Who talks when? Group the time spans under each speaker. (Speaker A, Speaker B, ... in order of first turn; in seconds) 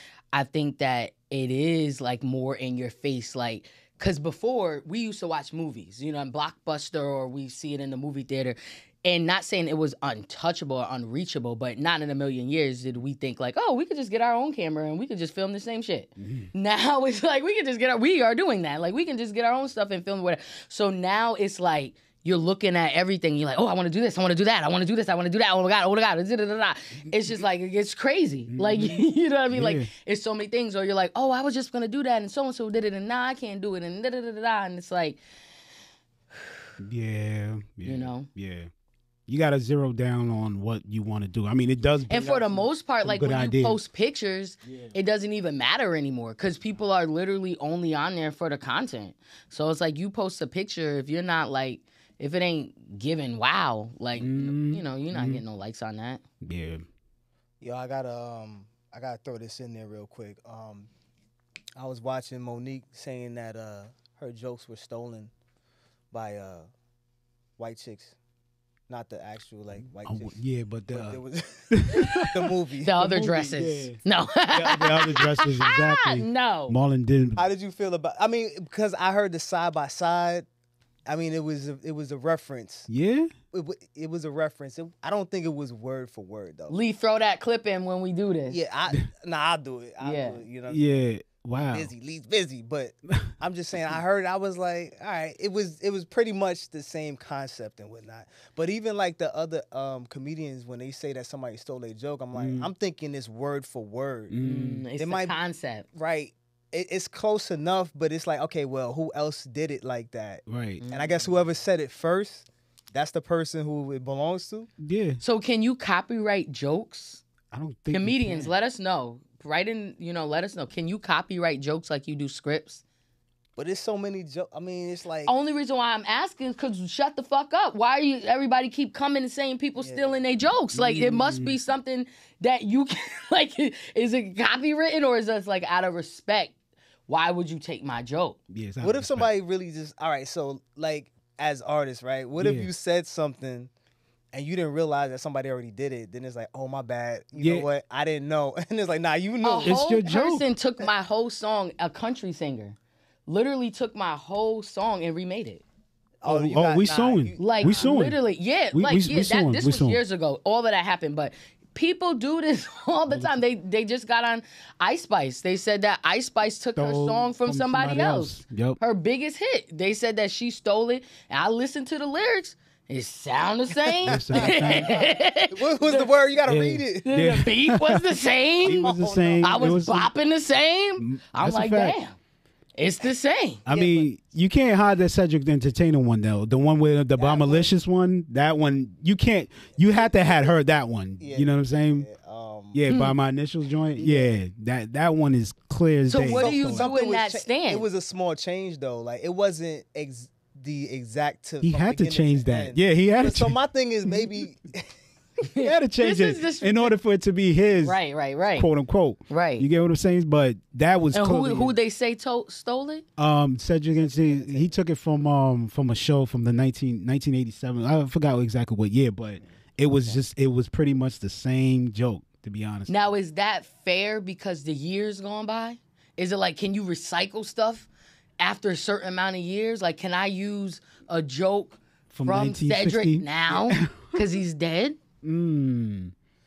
Speaker A: 0.3-35.2, 37.8-38.3, 42.1-56.2, 72.8-76.8, 86.7-88.6, 90.0-90.4, 104.4-105.9, 110.8-111.3, 115.2-117.2, 117.9-122.8, 125.3-136.6, 137.1-138.4, 149.4-155.6, 157.4-176.1, 177.0-182.2, 182.8-183.6, 192.9-193.1, 196.1-197.8, 205.5-207.0, 207.8-208.7, 209.3-209.7, 211.1-213.0, 222.9-227.9, 228.4-235.0
Speaker B: 16.2-16.5, 28.5-29.9, 36.8-38.7, 39.3-43.8, 54.2-55.4, 56.4-56.9, 70.0-71.2, 71.7-74.0, 74.5-77.4, 82.9-83.3, 90.7-91.9, 102.3-102.7, 104.3-104.9, 110.5-110.8, 114.8-115.2, 117.5-118.5, 130.7-131.6, 138.5-139.3, 142.4-142.7, 147.4-147.7, 149.6-150.5, 156.3-158.2, 158.7-160.0, 163.1-163.4, 166.8-168.8, 174.1-174.9, 176.5-178.1, 178.6-180.1, 181.0-182.0, 183.7-192.1, 192.7-196.9, 201.6-204.3, 205.6-208.0, 208.6-211.8, 213.2-223.1, 232.1-234.2, 235.2-236.1
Speaker C: 57.6-60.9, 61.8-65.3, 66.1-66.7, 67.6-68.2, 68.9-70.4, 70.9-73.0, 77.4-80.5, 81.1-82.9, 83.5-86.8, 88.5-91.0, 91.6-104.4, 105.0-105.4, 106.0-114.7, 123.6-125.3, 129.8-130.2, 138.8-143.7, 144.3-149.8, 156.2-157.9, 174.1-177.1, 178.7-179.8, 183.7-184.1, 187.2-187.7, 189.8-190.5, 191.2-192.8, 194.0-194.4, 196.3-204.9, 213.9-214.8